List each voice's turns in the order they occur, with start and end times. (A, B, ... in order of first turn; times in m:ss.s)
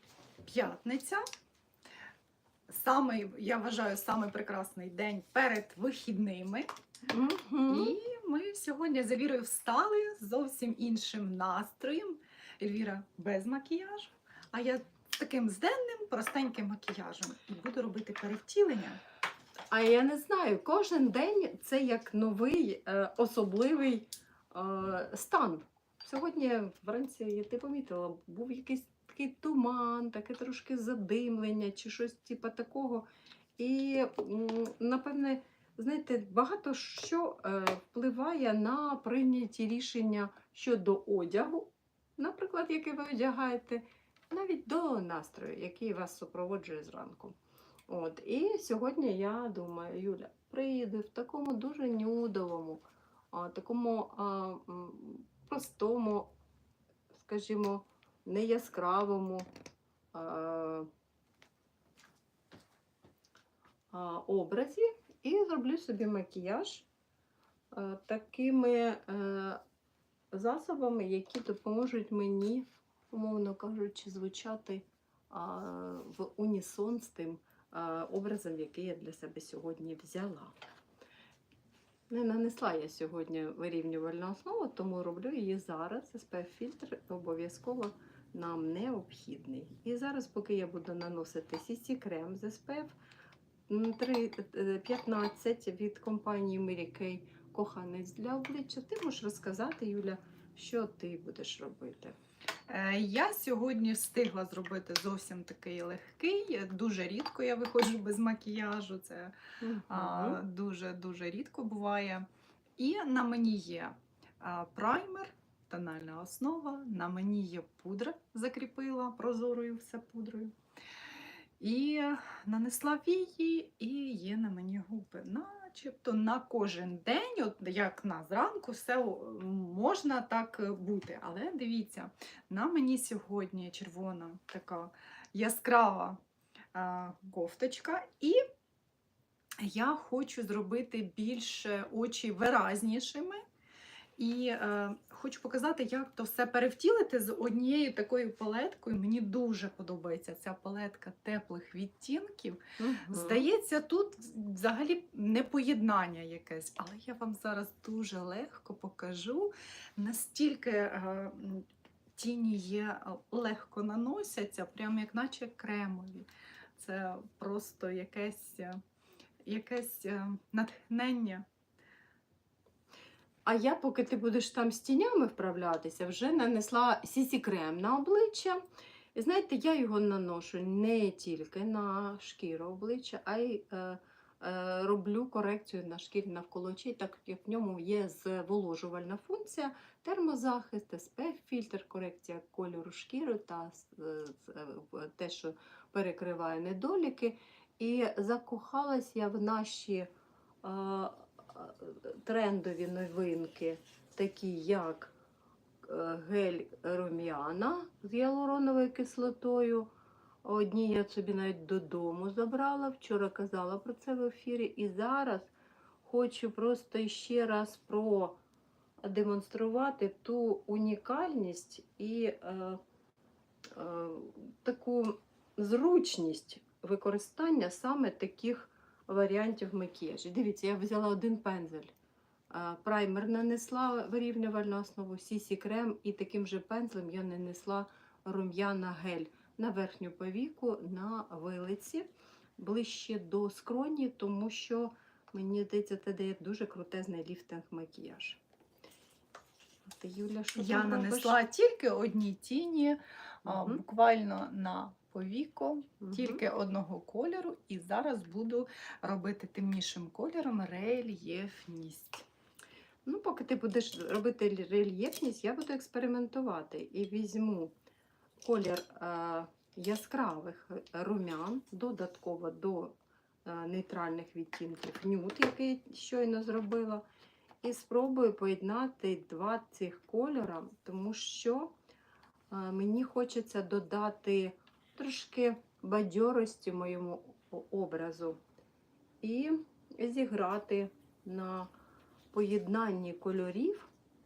0:00.4-0:01.2 A
0:02.7-0:06.7 A
0:07.1-0:08.0 B
0:07.7-0:19.0 A
0:19.7-0:33.1 B
0:33.6-0:47.4 B
0:47.9-0:56.3 B
0:57.1-0:59.5 B
1:00.1-1:00.9 B
1:03.9-1:06.9 B
1:07.7-1:09.6 B
1:10.3-1:20.6 B
1:22.1-1:33.0 B
1:33.7-1:42.2 B
1:42.7-1:49.4 A
1:49.6-1:50.4 B
1:49.9-1:52.3 A
1:52.8-2:00.5 A
2:01.6-2:16.2 A
2:16.7-2:18.4 A
2:19.6-2:23.4 A
2:24.2-2:48.8 A
2:32.8-2:33.5 B
2:49.5-2:51.4 A
2:53.5-2:58.6 B
2:59.2-3:20.1 B
3:20.6-3:25.2 B
3:25.8-3:29.9 B
3:30.4-3:35.5 B
3:36.0-3:38.4 B
3:39.0-3:42.8 B
3:43.7-3:51.9 B
3:52.5-4:02.1 B
4:02.6-4:08.4 B
4:09.9-4:11.4 B
4:10.5-4:22.2 A
4:13.5-4:13.8 B
4:16.0-4:16.4 B
4:23.0-4:27.8 B
4:28.4-4:37.0 B
4:37.6-4:41.7 B
4:42.5-4:48.4 B
4:49.2-4:51.7 B
4:52.3-4:53.9 B